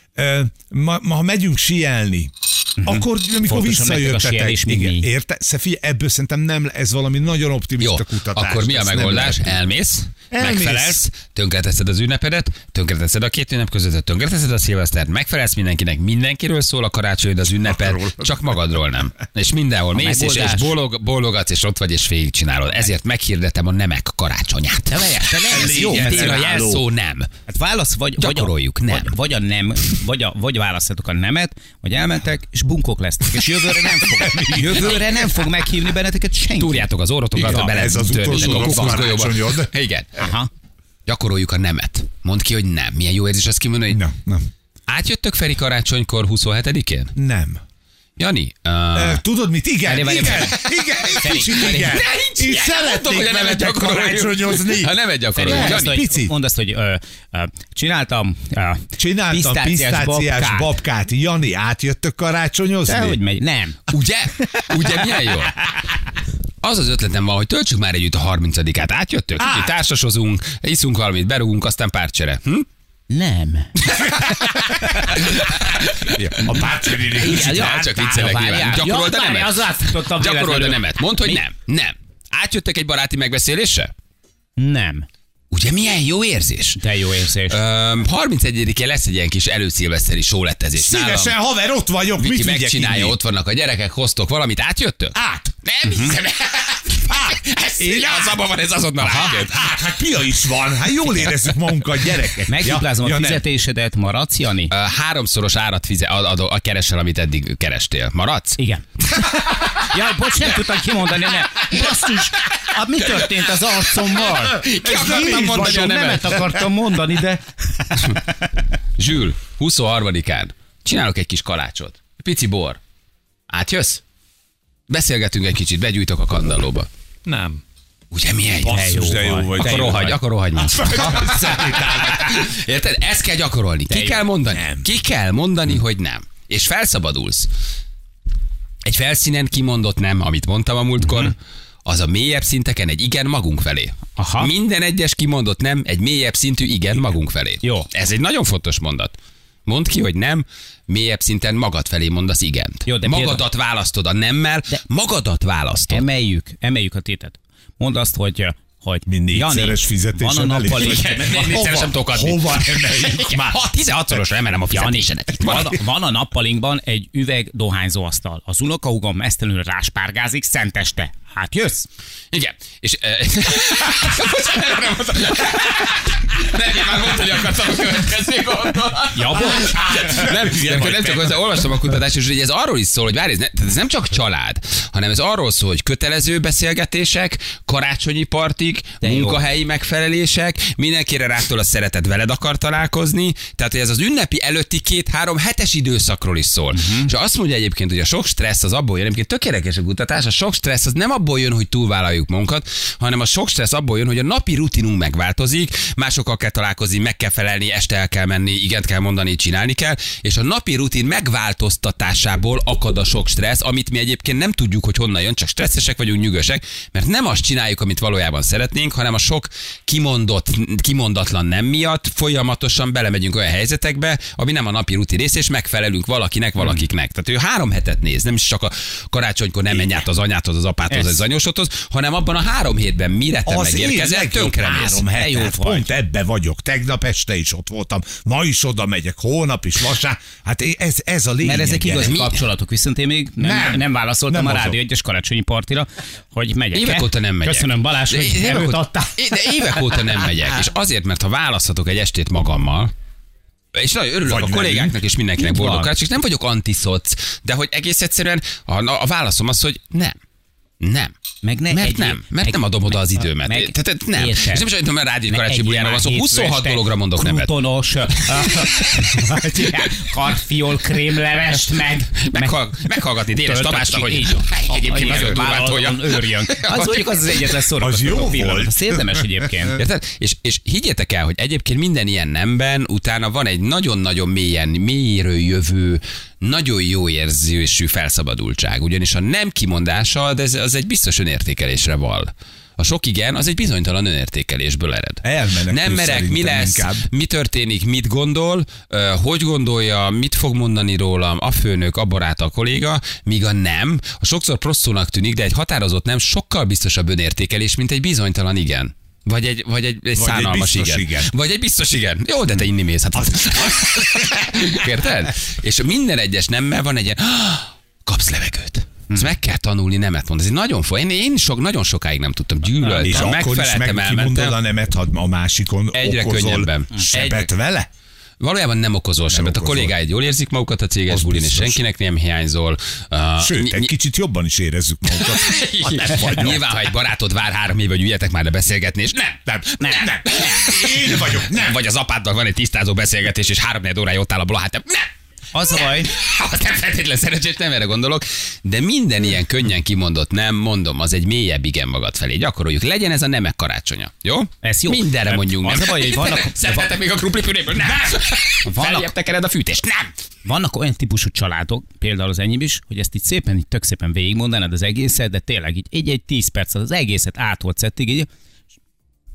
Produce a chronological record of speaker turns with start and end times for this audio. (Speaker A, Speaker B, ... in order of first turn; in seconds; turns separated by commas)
Speaker A: 0.1-9.6, Speaker B: 2.8-5.1, Speaker C: 7.8-27.3, Speaker A: 10.3-11.0, Speaker A: 17.6-18.2, Speaker B: 19.9-20.7, Speaker B: 24.9-26.4, Speaker A: 25.5-26.8, Speaker B: 27.5-39.1, Speaker C: 28.2-29.1, Speaker A: 34.2-35.1, Speaker C: 34.6-35.0, Speaker C: 36.6-40.2, Speaker A: 37.4-39.7, Speaker B: 40.2-40.5, Speaker C: 41.0-44.0, Speaker A: 43.9-44.5, Speaker C: 44.9-47.1, Speaker A: 47.1-47.6, Speaker C: 48.2-49.2, Speaker A: 48.9-56.3, Speaker B: 49.8-52.0, Speaker C: 51.6-56.0, Speaker B: 55.3-60.7, Speaker A: 59.0-63.2, Speaker B: 62.9-65.8, Speaker C: 63.9-65.6, Speaker C: 66.6-72.7, Speaker A: 69.4-69.8, Speaker B: 73.1-73.8, Speaker C: 73.8-83.9, Speaker A: 76.0-77.9, Speaker B: 77.2-81.4, Speaker B: 84.6-85.1, Speaker C: 85.5-86.8, Speaker B: 86.8-87.6, Speaker C: 87.5-91.4, Speaker A: 90.7-93.2, Speaker C: 92.2-99.7, Speaker A: 95.1-95.5, Speaker B: 95.8-96.2, Speaker A: 97.1-98.4, Speaker A: 99.0-103.4, Speaker B: 102.5-104.7, Speaker C: 104.7-108.6, Speaker B: 108.6-108.8, Speaker B: 109.4-118.5, Speaker C: 114.1-116.7, Speaker A: 114.8-115.9, Speaker C: 119.0-122.8, Speaker C: 123.5-124.0, Speaker C: 124.9-126.9, Speaker A: 127.2-127.6, Speaker C: 128.1-128.8, Speaker A: 128.6-132.3, Speaker B: 128.6-130.2, Speaker C: 129.6-137.5, Speaker B: 133.9-134.2, Speaker A: 134.5-134.9, Speaker C: 138.8-156.1, Speaker B: 144.2-144.5, Speaker B: 147.6-147.9, Speaker B: 152.8-153.4, Speaker B: 155.9-161.7, Speaker A: 159.1-163.6, Speaker C: 160.8-165.8, Speaker B: 164.7-171.9, Speaker C: 172.3-235.1, Speaker B: 179.1-180.0, Speaker A: 179.5-181.6, Speaker B: 189.0-189.4, Speaker B: 196.7-197.1, Speaker B: 226.6-226.8, Speaker A: 229.7-230.0, Speaker B: 230.9-231.2, Speaker A: 233.4-242.1, Speaker B: 235.1-235.9, Speaker B: 241.4-249.2, Speaker C: 242.0-242.5, Speaker A: 243.4-244.8, Speaker C: 246.7-252.9, Speaker C: 253.7-260.1, Speaker A: 254.2-255.0, Speaker B: 255.4-255.9, Speaker C: 260.8-261.1, Speaker B: 261.4-264.7, Speaker C: 261.7-267.5, Speaker B: 265.3-272.6, Speaker C: 268.2-269.2, Speaker C: 272.2-277.5, Speaker B: 273.4-279.8, Speaker A: 277.8-279.7, Speaker C: 279.8-324.6, Speaker A: 295.2-297.1, Speaker A: 310.1-311.3, Speaker A: 313.1-314.4, Speaker B: 322.9-323.2, Speaker A: 323.0-327.9, Speaker C: 325.9-327.5, Speaker C: 328.4-333.9, Speaker A: 329.3-330.0, Speaker A: 331.1-331.8, Speaker A: 333.4-336.7, Speaker C: 335.1-345.1, Speaker A: 339.5-341.8, Speaker B: 339.8-340.4, Speaker B: 345.5-346.1, Speaker C: 345.7-360.1, Speaker B: 354.6-356.9, Speaker B: 358.6-359.1, Speaker B: 360.4-368.3